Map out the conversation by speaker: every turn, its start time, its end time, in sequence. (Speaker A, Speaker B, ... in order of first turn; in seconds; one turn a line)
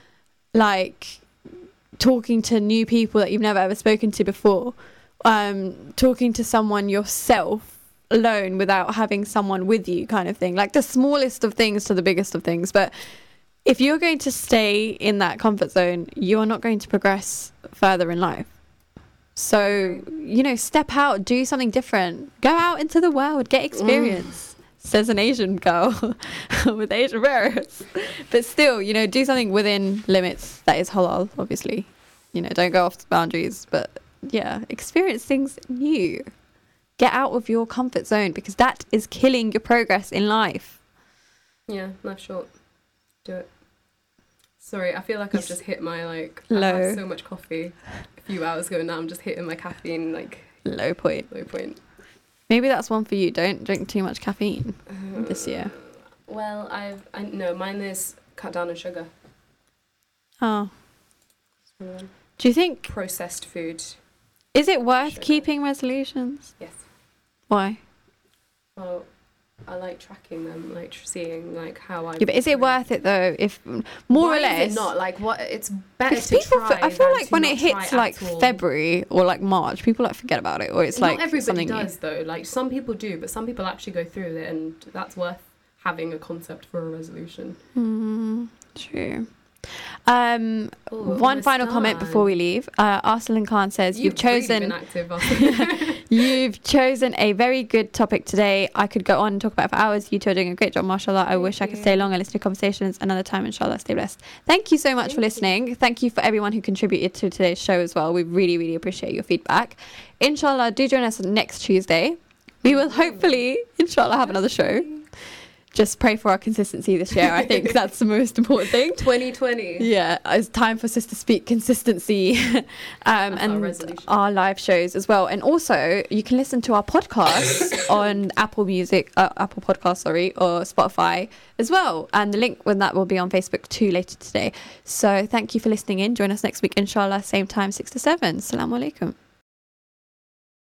Speaker A: 0.5-1.2
Speaker A: 2.0-12.9
Speaker A: 13.7-18.5
Speaker A: 19.4-36.3
Speaker B: 19.5-20.1
Speaker B: 23.8-24.2
Speaker A: 37.0-40.8
Speaker B: 41.7-42.5
Speaker B: 44.6-50.5
Speaker A: 46.5-47.0
Speaker A: 50.6-51.3
Speaker B: 51.3-51.8
Speaker A: 52.5-55.7
Speaker B: 54.9-59.1
Speaker A: 60.4-60.7
Speaker B: 61.8-62.1
Speaker A: 62.4-62.9
Speaker B: 62.9-64.0
Speaker A: 64.5-66.5
Speaker B: 65.0-65.5
Speaker A: 67.5-67.8
Speaker B: 68.8-69.1
Speaker B: 69.7-72.8
Speaker A: 72.2-74.9
Speaker B: 74.1-78.6
Speaker A: 76.1-81.9
Speaker B: 80.9-87.6
Speaker A: 87.8-89.3
Speaker A: 90.1-114.9
Speaker B: 90.9-92.3
Speaker B: 93.9-96.4
Speaker B: 101.3-102.1
Speaker B: 105.0-105.4
Speaker B: 112.7-113.4
Speaker B: 114.2-115.0
Speaker A: 115.7-119.1
Speaker B: 117.3-117.7
Speaker B: 119.0-119.9
Speaker A: 119.8-139.2
Speaker B: 123.3-124.1